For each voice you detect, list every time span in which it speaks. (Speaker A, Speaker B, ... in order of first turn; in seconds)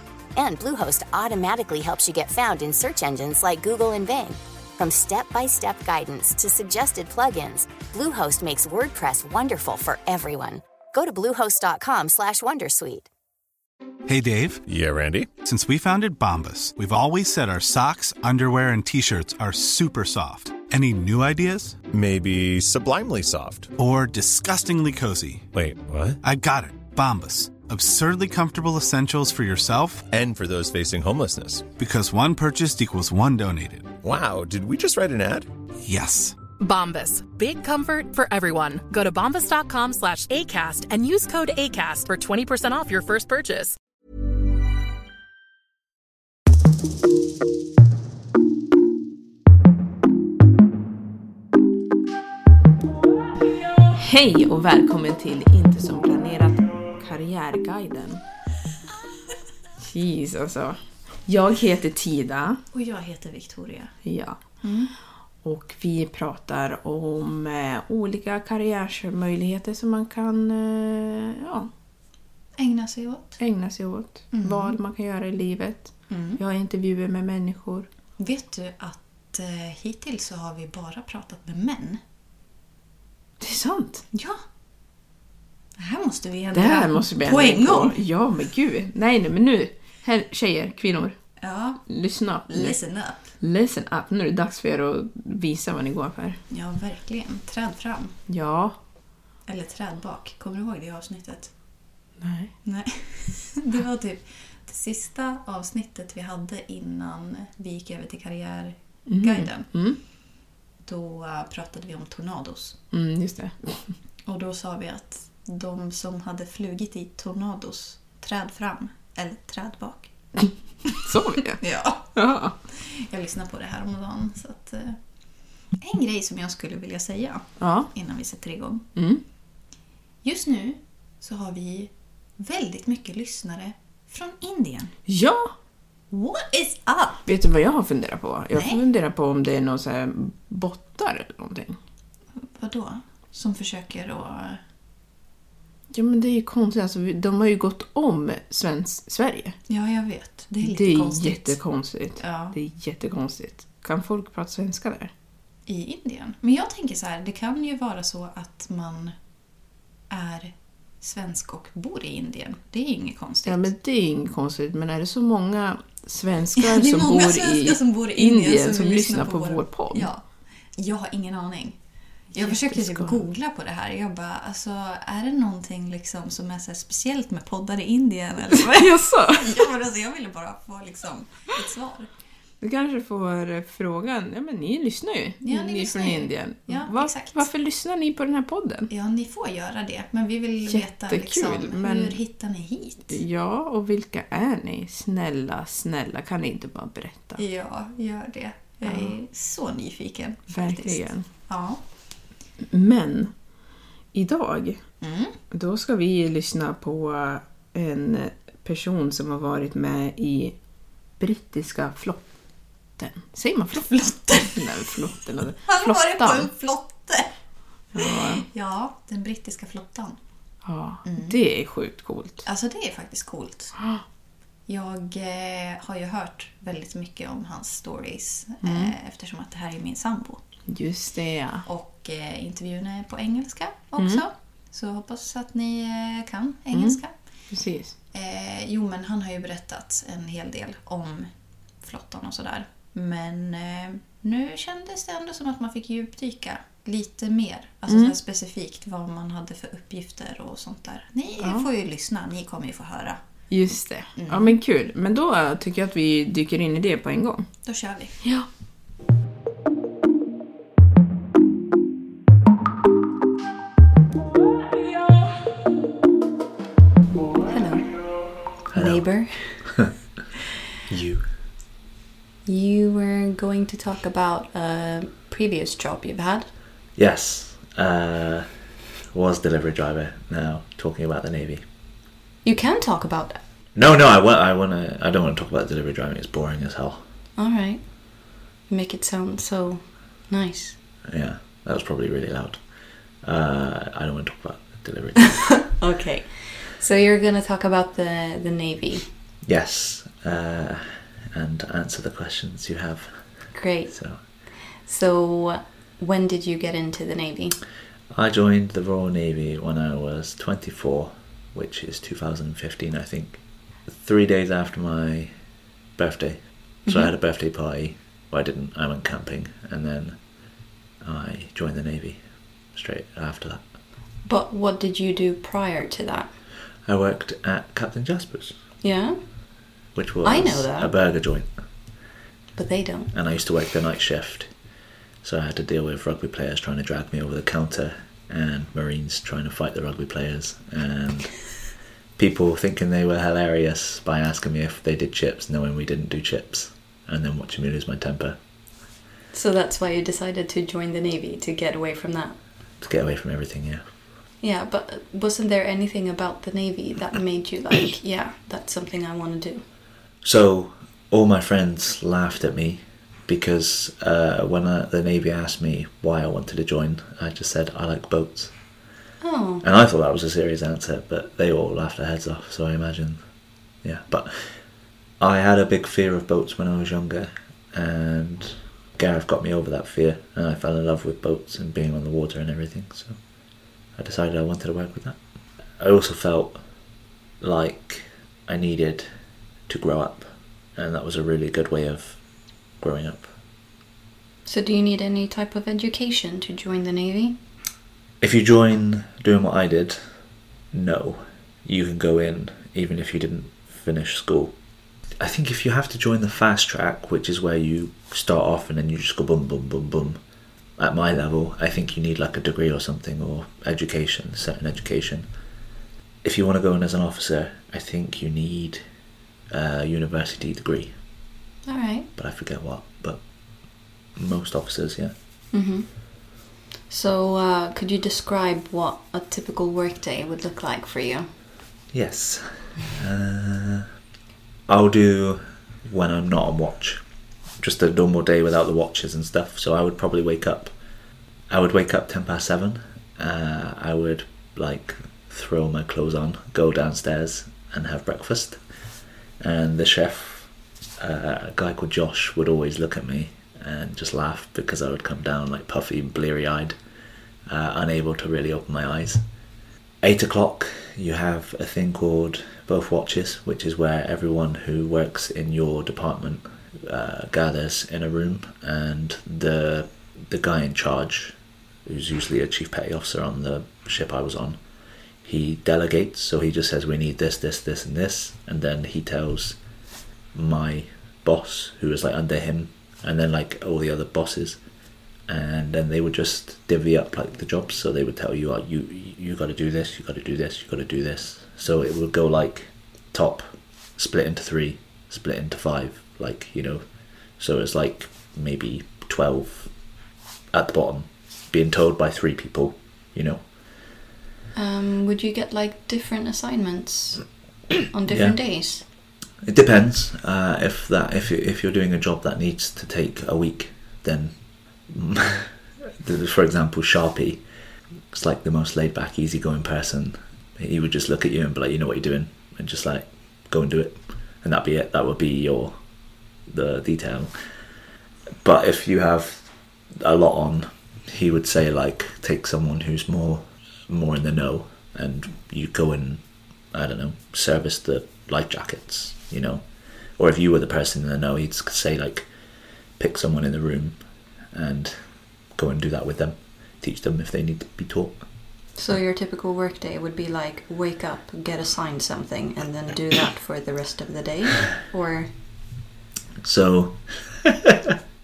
Speaker A: 0.4-13.1
Speaker B: 14.1-14.6, 15.3-21.8, 23.8-25.5, 26.2-30.1, 31.8-34.0, 35.8-36.4
Speaker C: 14.7-15.3, 21.9-23.7, 25.5-26.2, 30.1-31.7, 34.0-35.5
Speaker D: 36.6-43.8
Speaker E: 54.0-58.2, 59.8-62.6, 64.0-71.7, 73.4-77.9, 83.4-84.1, 86.5-91.3, 91.9-96.4, 98.3-98.8, 102.2-102.5, 109.1-110.0, 112.9-114.0, 120.4-122.6, 127.6-127.9, 128.9-129.2, 135.1-135.5, 137.3-141.8, 145.9-149.6, 150.6-155.1, 163.4-170.1, 172.4-173.2, 178.7-179.6, 182.6-188.9, 190.7-192.2, 193.1-197.4, 198.8-199.2, 200.5-201.3, 202.7-205.0, 205.5-216.5, 218.0-218.4, 220.6-222.4, 223.8-224.0, 228.6-228.9, 230.7-231.7, 234.0-234.2, 236.7-238.0, 247.9-248.2, 251.4-251.7, 253.5-257.5, 258.2-258.5
Speaker F: 62.7-64.0, 64.6-64.9, 72.6-73.4, 74.3-74.8, 76.1-76.4, 78.2-82.0, 84.1-84.4, 85.8-88.0, 91.4-93.3, 96.5-98.2, 99.5-101.6, 102.6-110.2, 110.8-112.8, 114.2-120.5, 121.6-128.9, 130.2-135.0, 136.1-137.3, 138.5-138.8, 142.4-144.6, 149.7-151.6, 152.2-152.6, 155.7-159.2, 160.1-163.7, 166.6-182.1, 185.4-187.5, 188.9-193.2, 197.4-201.8, 205.0-205.3, 213.7-214.6, 215.7-217.4, 217.9-220.2, 221.1-221.4, 222.4-223.9, 224.7-230.4, 231.7-237.5, 238.1-253.2, 254.2-254.6, 257.6-258.2
Speaker G: 267.5-269.8, 272.5-276.5, 282.4-283.4, 287.4-290.8, 295.7-299.1, 303.5-307.6, 316.9-317.1, 324.2-326.3, 328.8-329.5, 330.2-330.9, 332.6-333.1, 349.3-352.4, 354.4-359.7, 369.2-369.6, 394.4-397.4, 421.7-422.1, 425.5-426.1, 426.9-431.3, 504.5-508.9, 548.8-555.4
Speaker H: 268.7-269.9, 270.9-271.3, 276.9-281.6, 283.8-287.1, 291.1-295.8, 299.4-304.2, 308.1-315.4, 316.0-320.3, 321.0-323.7, 326.9-328.6, 329.9-331.5, 333.1-334.6, 335.2-348.4, 352.8-353.9, 360.2-368.8, 369.6-373.3, 373.8-383.2, 383.9-385.2, 385.7-386.6, 387.4-389.1, 389.7-392.2, 392.8-393.3, 398.2-400.0, 400.7-404.6, 405.1-410.2, 410.8-415.3, 416.2-418.9, 419.5-421.0, 422.2-425.1, 431.9-433.9, 434.7-437.1, 437.6-440.7, 441.5-448.6, 449.4-456.8, 457.5-459.2, 460.0-474.6, 475.2-479.6, 480.3-484.6, 485.3-500.0, 500.5-503.5, 508.1-517.5, 518.1-525.8, 526.5-527.3, 528.4-542.3, 542.9-548.3, 556.4-557.9